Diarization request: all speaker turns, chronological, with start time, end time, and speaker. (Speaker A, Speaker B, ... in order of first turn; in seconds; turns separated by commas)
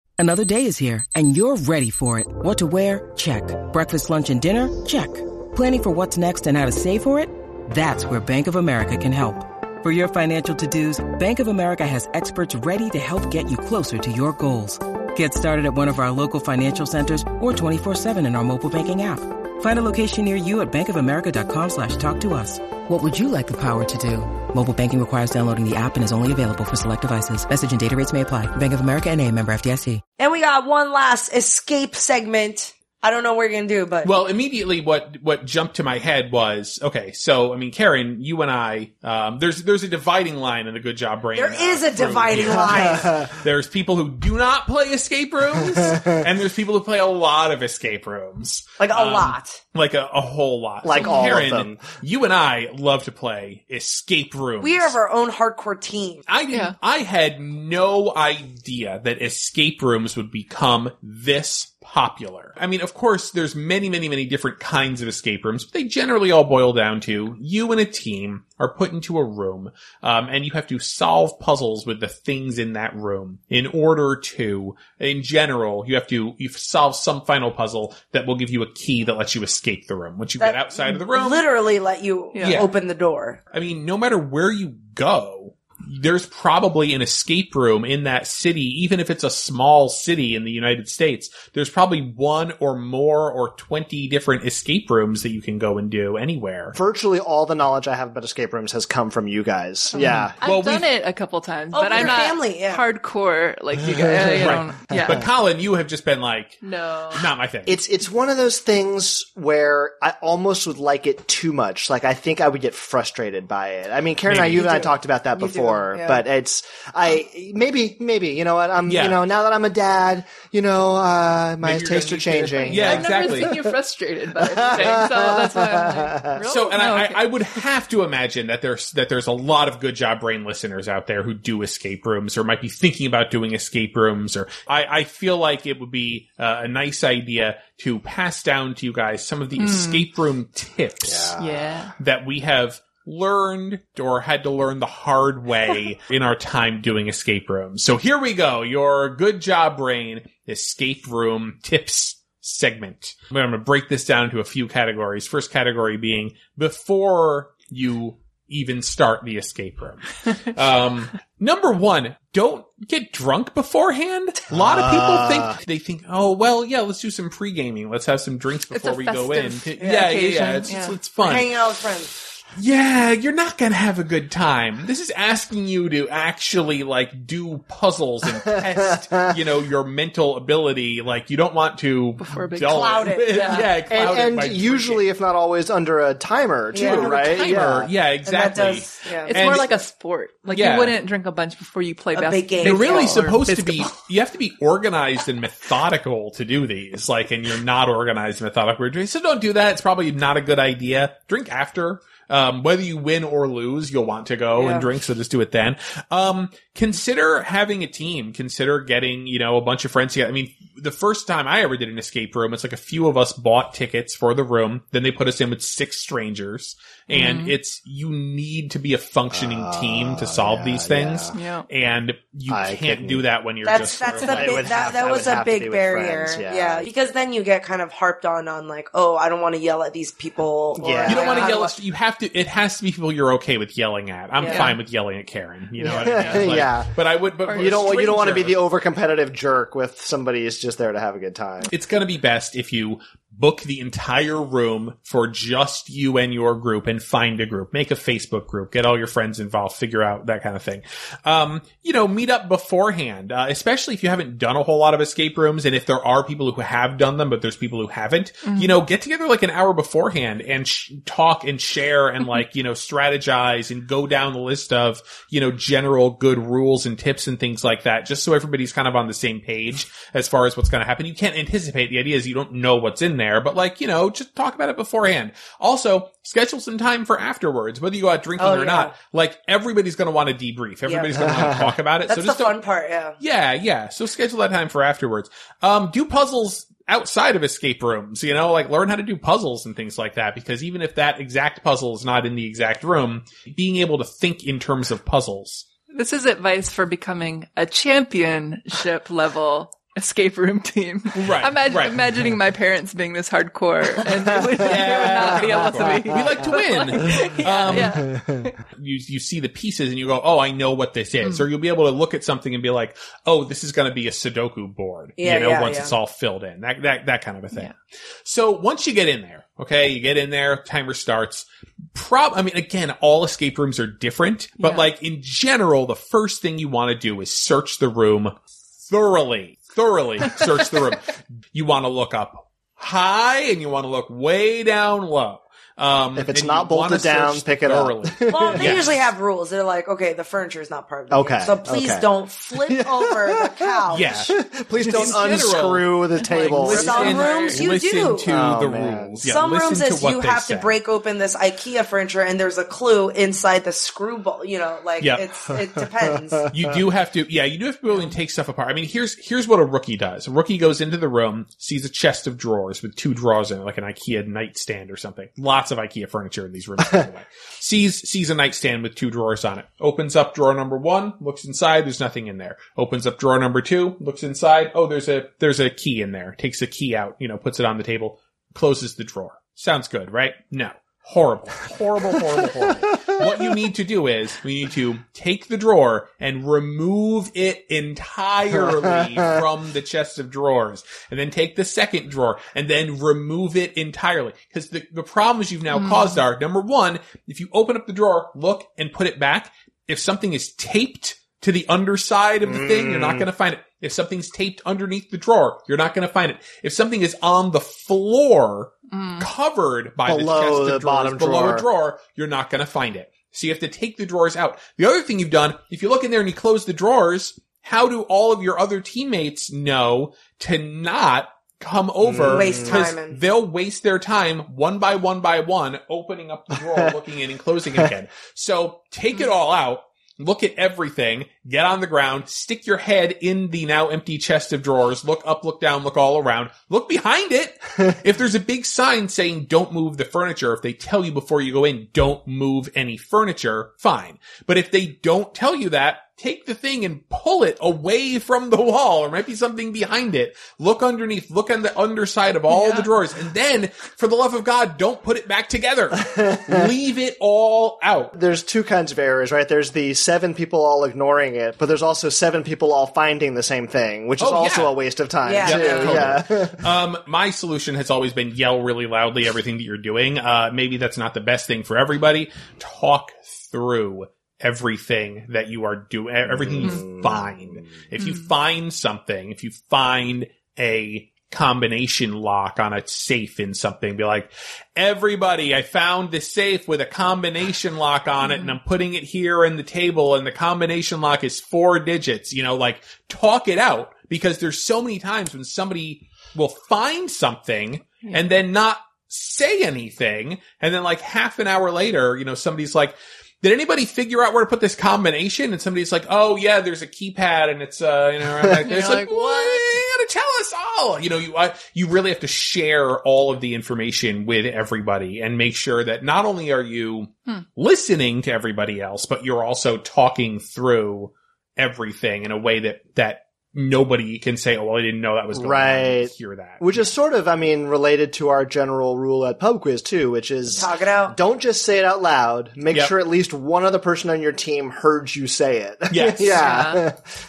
Speaker A: 0.2-30.0, Speaker B: 30.2-34.1, Speaker C: 34.0-54.9, Speaker B: 41.3-43.2, Speaker D: 42.4-43.3, Speaker B: 48.8-49.6, Speaker D: 50.8-51.8, Speaker E: 51.0-51.3, Speaker B: 54.6-56.2, Speaker C: 56.3-81.4, Speaker B: 80.4-83.4, Speaker E: 82.3-82.7, Speaker C: 82.4-82.7, Speaker C: 83.5-96.8, Speaker D: 96.7-100.3, Speaker E: 99.9-105.2, Speaker C: 100.0-100.8, Speaker B: 101.7-102.8, Speaker D: 103.8-105.2, Speaker C: 104.3-107.8, Speaker E: 106.6-107.2, Speaker D: 107.7-123.7, Speaker C: 114.3-114.8, Speaker B: 114.6-116.2, Speaker C: 118.9-119.2, Speaker C: 121.6-123.6, Speaker E: 122.6-127.3, Speaker D: 124.4-126.3, Speaker C: 126.5-141.3, Speaker E: 139.6-140.1, Speaker D: 141.0-141.7, Speaker E: 141.4-141.9, Speaker C: 142.0-171.5, Speaker D: 164.5-165.6, Speaker E: 168.7-170.9, Speaker B: 171.2-172.1, Speaker C: 172.5-185.1, Speaker D: 178.5-179.2, Speaker E: 182.2-183.7, Speaker B: 182.6-183.7, Speaker D: 183.9-187.9, Speaker B: 186.7-187.6, Speaker C: 186.7-189.7, Speaker B: 188.2-189.4, Speaker E: 189.2-193.9, Speaker C: 190.5-191.0, Speaker B: 192.1-193.3, Speaker C: 192.6-224.6, Speaker B: 204.6-204.8, Speaker E: 217.1-217.6, Speaker D: 219.3-221.3, Speaker E: 221.3-221.7, Speaker D: 222.5-223.2, Speaker B: 223.6-231.8, Speaker D: 224.2-226.9, Speaker D: 230.8-231.5, Speaker C: 231.1-238.6, Speaker E: 234.4-234.8, Speaker D: 235.8-236.9, Speaker E: 235.9-236.5, Speaker E: 237.5-238.2, Speaker D: 237.5-241.7, Speaker C: 241.7-282.6, Speaker E: 258.4-258.7, Speaker B: 278.4-278.9, Speaker B: 280.9-281.3, Speaker D: 281.2-281.7, Speaker B: 282.1-283.1, Speaker C: 283.2-295.6, Speaker E: 295.9-308.6, Speaker C: 301.1-302.0, Speaker C: 304.6-308.1, Speaker D: 305.1-308.4, Speaker C: 308.8-317.7, Speaker B: 315.2-315.9, Speaker C: 318.2-328.3, Speaker E: 324.6-324.9, Speaker C: 328.9-339.0, Speaker D: 336.1-338.8, Speaker B: 338.3-344.3, Speaker D: 341.1-347.2, Speaker C: 343.9-350.8, Speaker E: 346.2-347.6, Speaker B: 346.6-348.3, Speaker D: 348.2-349.2, Speaker B: 349.2-356.5, Speaker C: 356.5-458.1, Speaker E: 357.9-358.1, Speaker D: 388.8-389.4, Speaker E: 395.7-396.2, Speaker D: 402.4-403.3, Speaker E: 408.9-409.3, Speaker D: 410.1-411.6, Speaker D: 422.0-422.8, Speaker B: 422.3-423.2, Speaker E: 452.5-452.9, Speaker D: 456.0-456.7, Speaker D: 458.1-466.7, Speaker C: 464.2-464.7, Speaker B: 465.2-466.1, Speaker C: 465.4-526.9, Speaker D: 476.2-477.8, Speaker E: 478.0-478.3, Speaker E: 488.2-488.6, Speaker E: 508.6-509.8, Speaker D: 525.3-537.0, Speaker B: 530.5-531.1, Speaker C: 535.9-536.4, Speaker E: 536.3-536.8